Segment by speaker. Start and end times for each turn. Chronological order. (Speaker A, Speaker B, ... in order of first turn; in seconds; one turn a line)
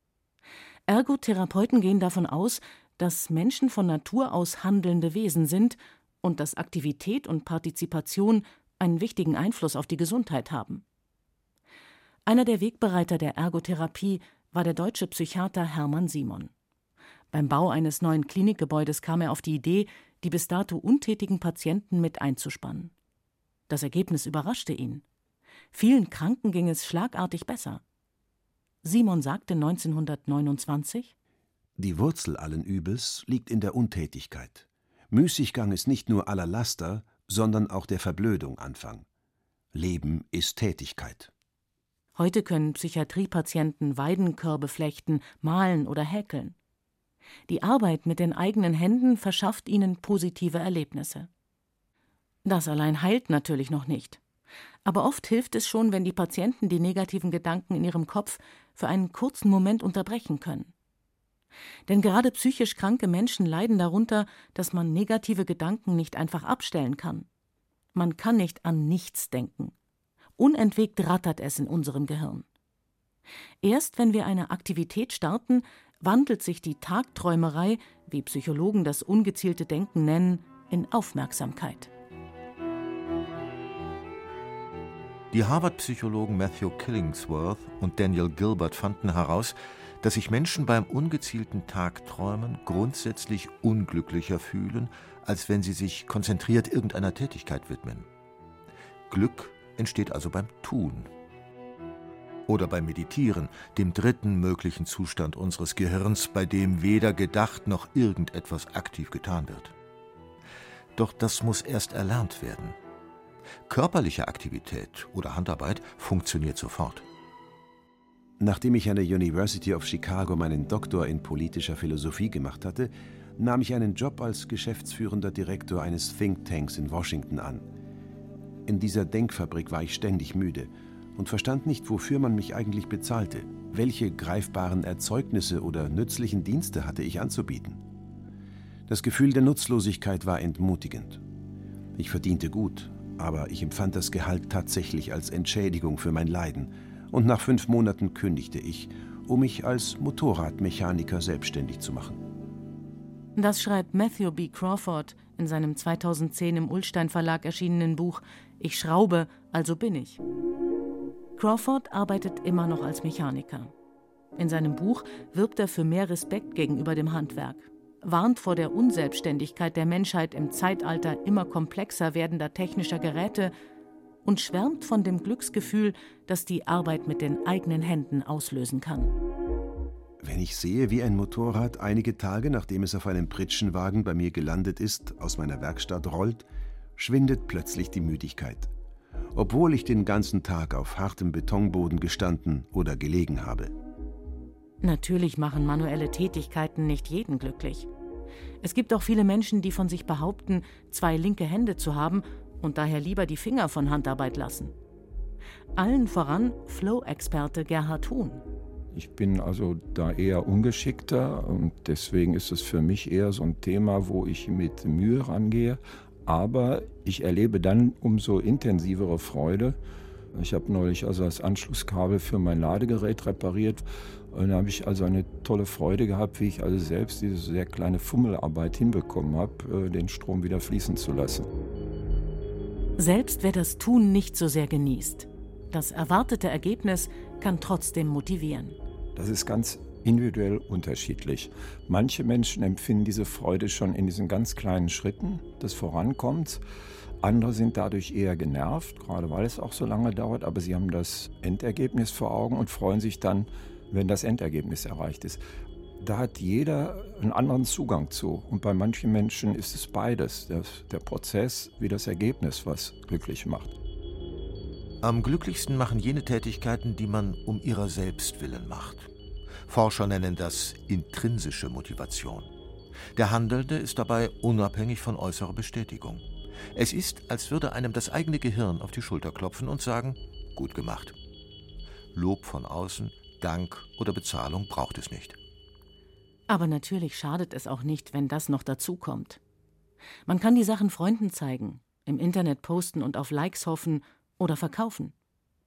Speaker A: 0.9-10.8
Speaker A: 12.2-16.5
Speaker A: 17.3-22.9
Speaker A: 23.7-25.0
Speaker A: 25.7-27.8
Speaker A: 28.8-31.1
Speaker B: 31.8-39.0
Speaker B: 39.7-41.3
Speaker A: 42.1-46.5
Speaker A: 47.5-51.3
Speaker A: 52.4-54.2
Speaker A: 54.9-60.7
Speaker A: 61.9-67.3
Speaker A: 67.9-69.7
Speaker A: 70.4-72.5
Speaker A: 73.6-81.9
Speaker C: 85.3-98.1
Speaker C: 99.1-101.1
Speaker C: 102.5-109.7
Speaker C: 111.0-112.8
Speaker C: 113.7-117.0
Speaker B: 118.4-127.7
Speaker B: 128.7-137.8
Speaker B: 138.9-141.2
Speaker B: 142.0-152.2
Speaker A: 153.4-160.2
Speaker A: 161.4-163.7
Speaker A: 164.4-173.5
Speaker A: 174.2-179.1
Speaker B: 180.2-186.4
Speaker B: 187.0-188.7
Speaker B: 189.3-193.7
Speaker A: 194.8-197.9
Speaker A: 198.6-204.7
Speaker A: 205.8-208.4
Speaker D: 208.9-219.8
Speaker D: 220.3-231.5
Speaker A: 233.0-238.8
Speaker D: 239.2-246.6
Speaker D: 247.2-255.4
Speaker D: 256.0-263.8
Speaker C: 265.0-269.1
Speaker C: 269.7-272.5
Speaker C: 273.1-281.1
Speaker C: 282.1-285.4
Speaker A: 286.5-289.4
Speaker A: 290.3-295.1